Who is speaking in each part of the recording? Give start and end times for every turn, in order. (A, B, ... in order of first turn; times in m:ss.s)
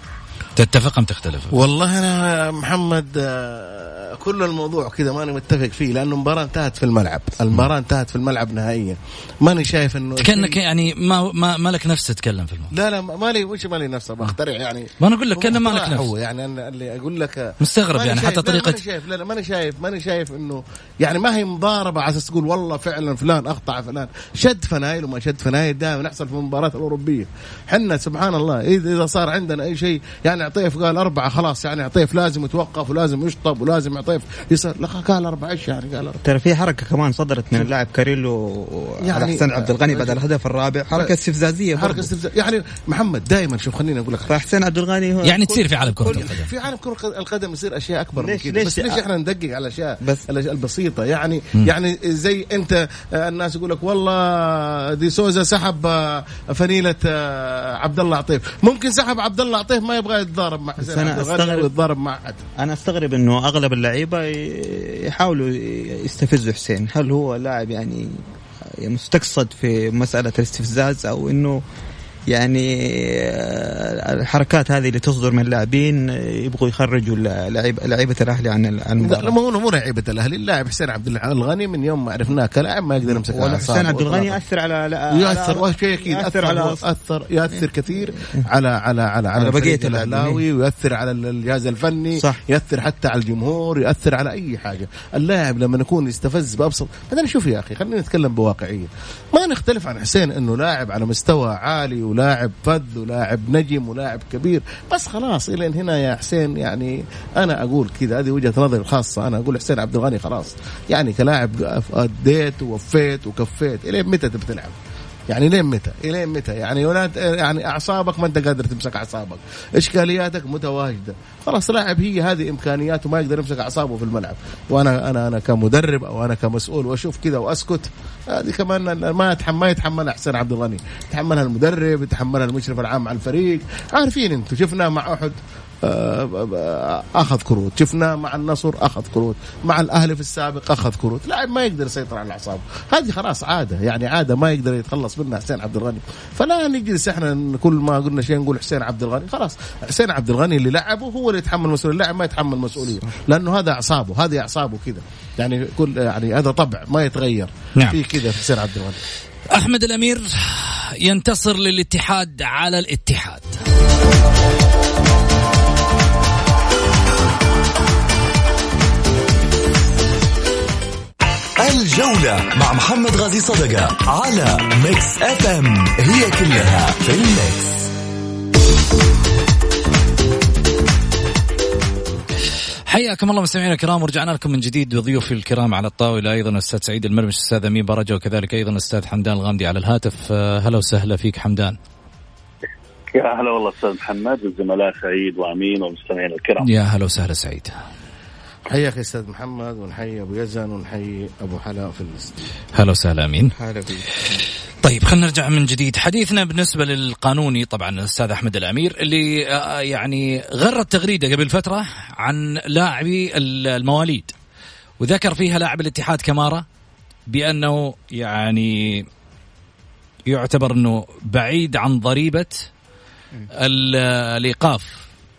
0:00.6-0:01.6 A
0:01.5-0:10.6 B
0:10.2-0:12.7 A
0:12.7-0:36.2 B
0:15.0-0:16.1 A
0:17.6-0:18.8 A
0:36.2-0:42.1 C
0:39.0-0:40.2 B
0:41.8-0:44.4 B
0:44.3-0:46.3 C
0:45.2-0:46.5 A
0:46.0-1:02.4 B
0:48.2-0:49.0 C
0:50.0-0:50.3 C
1:00.8-1:01.7 C
1:02.6-1:11.6 C
1:12.3-1:19.4 C
1:19.0-1:24.4 B
1:23.0-1:26.8 C
1:25.1-1:54.8 B
1:27.5-1:28.4 C
1:29.4-1:30.4 C
1:32.2-1:32.4 C
1:55.3-2:39.0 B
2:39.5-2:43.5 A
2:51.6-2:57.9 D
3:02.9-3:11.8 A
3:13.1-3:16.6 E
3:16.6-3:17.8 A
3:18.7-3:22.3 B
3:22.7-3:23.5 A
3:23.6-3:24.2 C
3:24.8-3:34.3 A
3:35.0-3:36.6 A
3:37.3-3:39.1 A
3:40.3-3:42.7 A
3:43.6-3:45.0 A